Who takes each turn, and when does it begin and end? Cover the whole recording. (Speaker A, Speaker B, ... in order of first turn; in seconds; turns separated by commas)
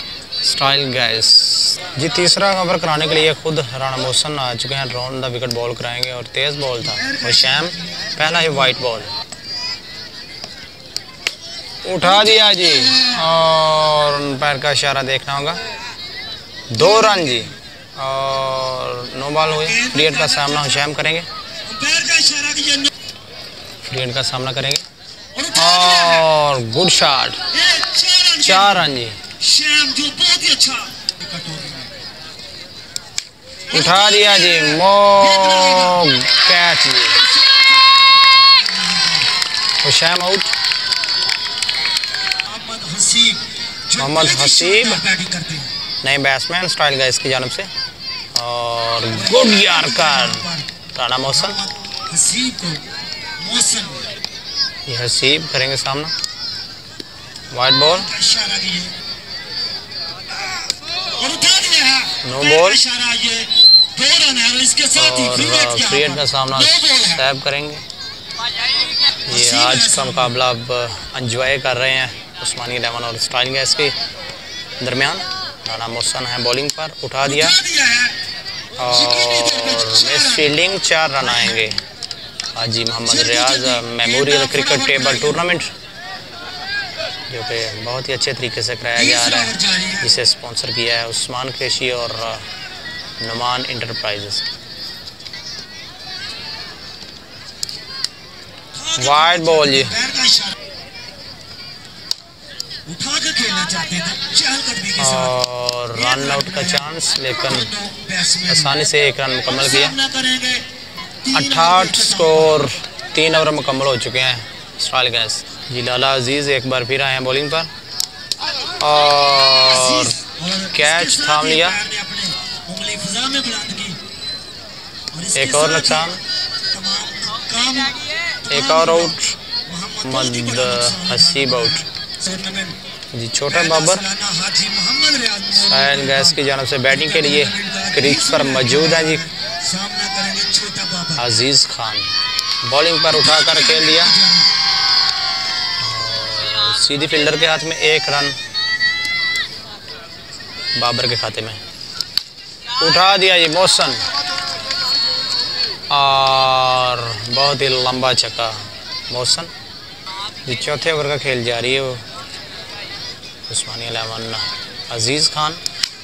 Speaker A: 0.4-9.1, Speaker B: 6.8-8.8, Speaker A: 11.8-15.6, Speaker B: 12.0-13.3, Speaker A: 16.7-21.3, Speaker B: 16.8-17.5, Speaker B: 19.6-20.9, Speaker B: 21.6-22.9, Speaker A: 23.8-24.8, Speaker B: 25.4-26.3, Speaker A: 25.6-27.4, Speaker B: 27.5-31.9, Speaker A: 28.4-29.2, Speaker B: 33.7-36.1, Speaker A: 33.7-37.2, Speaker B: 37.1-39.3, Speaker A: 39.8-40.5, Speaker B: 42.4-45.7, Speaker A: 44.0-45.0, Speaker A: 46.0-47.7, Speaker A: 48.4-51.6, Speaker B: 49.1-50.7, Speaker B: 51.3-52.8, Speaker B: 53.4-54.1, Speaker A: 54.9-56.1, Speaker A: 57.5-58.1, Speaker B: 57.8-58.9, Speaker B: 61.1-67.2, Speaker A: 62.2-62.8, Speaker A: 65.0-67.8, Speaker A: 69.3-74.0, Speaker B: 69.3-70.3, Speaker A: 74.8-77.6, Speaker B: 77.2-78.2, Speaker A: 78.8-81.8, Speaker B: 78.8-80.5, Speaker B: 81.2-81.7, Speaker A: 82.5-85.7, Speaker B: 83.0-85.6, Speaker A: 87.3-92.4, Speaker B: 89.0-90.1, Speaker A: 93.2-94.4, Speaker B: 98.8-100.6, Speaker A: 99.0-100.0, Speaker B: 102.9-105.3, Speaker A: 105.0-107.7, Speaker B: 106.0-108.8, Speaker A: 108.5-110.0, Speaker B: 109.5-110.7, Speaker B: 111.2-112.6, Speaker A: 111.3-117.7, Speaker A: 118.8-120.2, Speaker B: 119.7-124.0, Speaker A: 120.7-121.8, Speaker B: 125.1-126.2, Speaker A: 125.3-126.2, Speaker B: 126.7-132.8, Speaker A: 128.5-129.4, Speaker A: 130.1-131.8, Speaker A: 133.1-134.1, Speaker B: 133.5-141.3, Speaker A: 135.7-139.2, Speaker A: 141.2-142.1, Speaker A: 142.6-144.1, Speaker B: 143.2-144.5, Speaker A: 145.8-148.4, Speaker A: 150.8-151.6, Speaker A: 152.8-154.0, Speaker A: 155.9-159.5, Speaker A: 160.4-162.0, Speaker A: 163.5-165.6